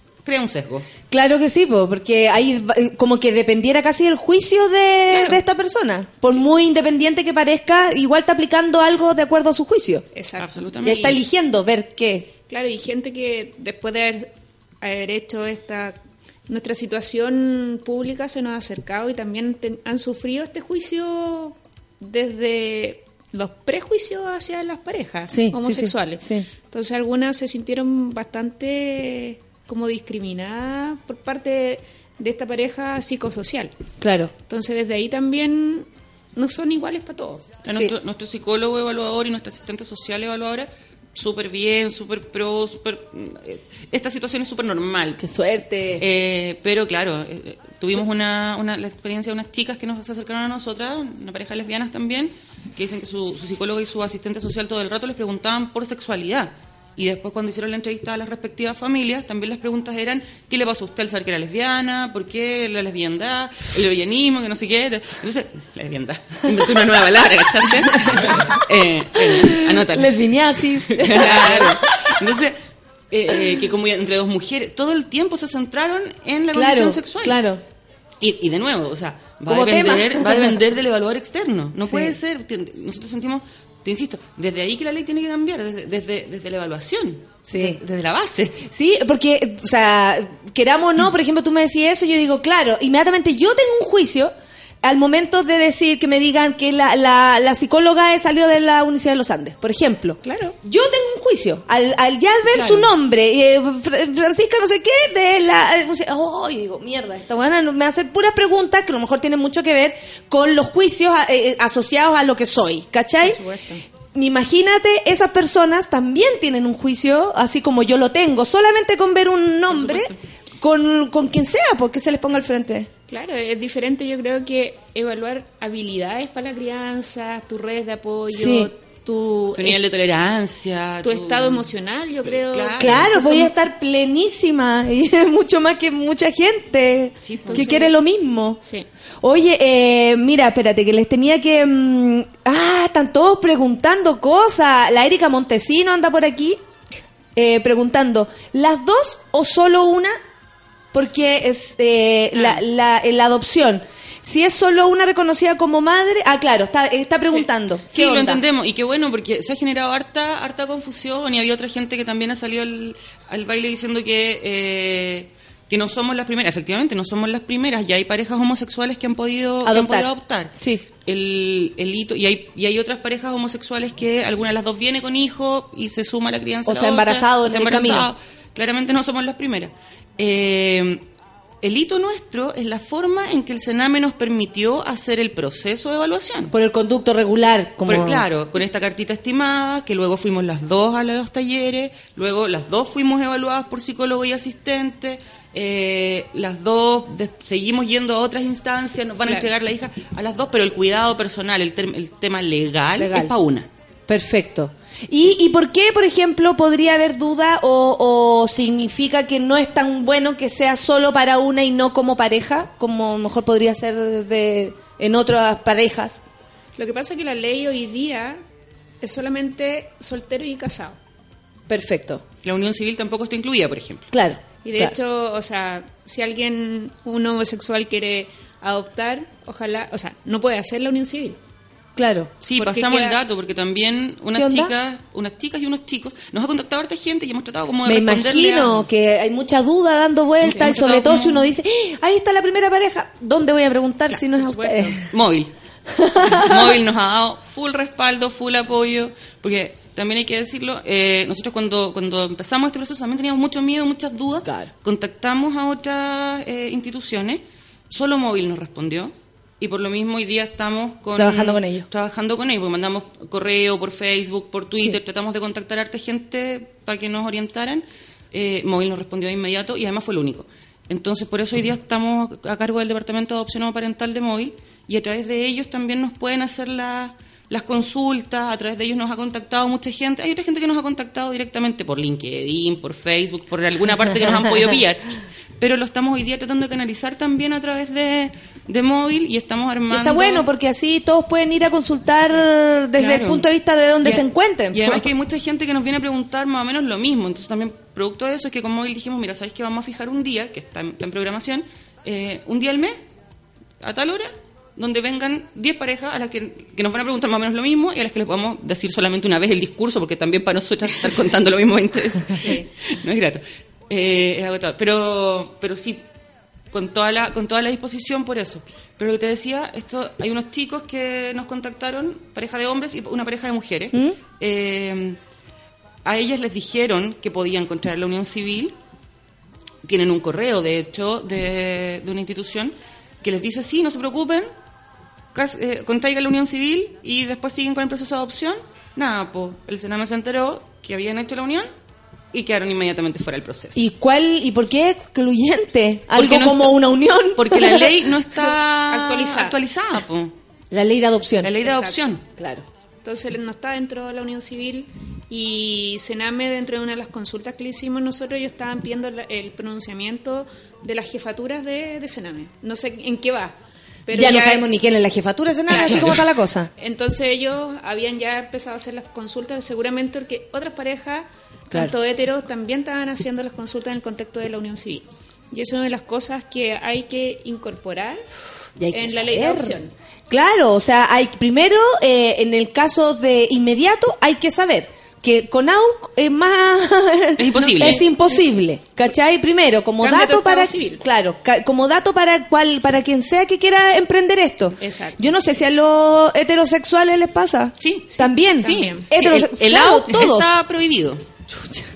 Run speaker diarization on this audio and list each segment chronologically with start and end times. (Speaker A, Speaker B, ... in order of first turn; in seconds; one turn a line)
Speaker A: 0.2-0.8
Speaker B: 1.1-10.0
Speaker A: 5.1-5.4
Speaker C: 10.1-11.1
Speaker A: 10.4-11.2
Speaker B: 10.8-12.3
Speaker C: 12.5-16.0
Speaker C: 16.5-33.7
Speaker B: 25.3-26.5
Speaker B: 34.0-34.3
Speaker C: 34.5-37.5
Speaker A: 37.6-45.2
Speaker B: 45.2-46.0
Speaker A: 46.0-70.2
Speaker B: 69.2-72.2
Speaker A: 70.9-72.5
Speaker A: 73.1-77.4
Speaker B: 76.5-77.6
Speaker A: 78.2-88.6
Speaker B: 79.5-80.6
Speaker B: 81.8-82.2
Speaker B: 87.5-87.8
Speaker B: 88.7-113.4
Speaker C: 100.2-100.5
Speaker C: 102.5-102.8
Speaker C: 113.2-113.8
Speaker B: 114.1-122.9
Speaker A: 119.7-120.2
Speaker C: 123.1-129.7
Speaker B: 128.3-128.7
Speaker A: 129.5-131.7
Speaker C: 131.0-133.6
Speaker A: 132.2-133.2
Speaker B: 132.8-138.6
Speaker A: 137.2-137.7
Speaker C: 137.4-137.9
Speaker B: 139.2-146.6
Speaker B: 147.3-150.2
Speaker B: 150.9-158.4
Speaker A: 157.9-181.0
Speaker B: 169.6-170.8
Speaker B: 176.7-178.1
Speaker A: 181.6-186.5
Speaker B: 186.5-188.2
Speaker A: 187.8-203.7
Speaker B: 203.0-203.3
Speaker B: 204.1-216.2
Speaker C: 216.8-218.4
Speaker C: 219.0-221.0
Speaker B: 221.7-222.2
Speaker A: 222.4-224.1
Speaker B: 224.1-224.9
Speaker C: 224.6-231.4
Speaker B: 231.9-232.3
Speaker A: 232.4-238.9
Speaker C: 232.5-233.2
Speaker B: 234.3-234.7
Speaker B: 237.8-245.1
Speaker A: 240.4-241.5
Speaker C: 240.5-240.8
Speaker C: 244.1-245.0
Speaker A: 245.1-245.5
Speaker B: 245.9-246.8
Speaker A: 246.2-290.5
Speaker B: 254.4-254.7
Speaker B: 261.1-261.9
Speaker B: 284.2-284.6
Speaker B: 289.9-295.1
Speaker A: 292.9-293.4
Speaker A: 294.0-303.0
Speaker A: 303.8-316.0
Speaker C: 312.4-312.6
Speaker A: 316.7-325.2
Speaker A: 326.0-328.7
Speaker A: 329.8-334.5
Speaker A: 335.3-341.7
Speaker A: 342.3-343.8
Speaker B: 343.7-348.0
Speaker A: 346.1-346.8
Speaker A: 347.4-350.3
Speaker C: 348.3-349.6
Speaker B: 350.7-351.6
Speaker A: 351.4-352.2
Speaker C: 351.6-352.0
Speaker B: 352.4-352.6
Speaker C: 353.0-364.7
Speaker B: 364.1-366.7
Speaker C: 365.7-366.2
Speaker A: 365.8-366.2
Speaker C: 366.8-378.2
Speaker B: 378.8-379.8
Speaker C: 378.9-379.9
Speaker B: 380.3-400.5
Speaker A: 387.4-388.1
Speaker C: 390.0-391.0
Speaker C: 394.8-395.2
Speaker A: 397.8-401.2
Speaker C: 398.2-399.1
Speaker B: 401.5-401.8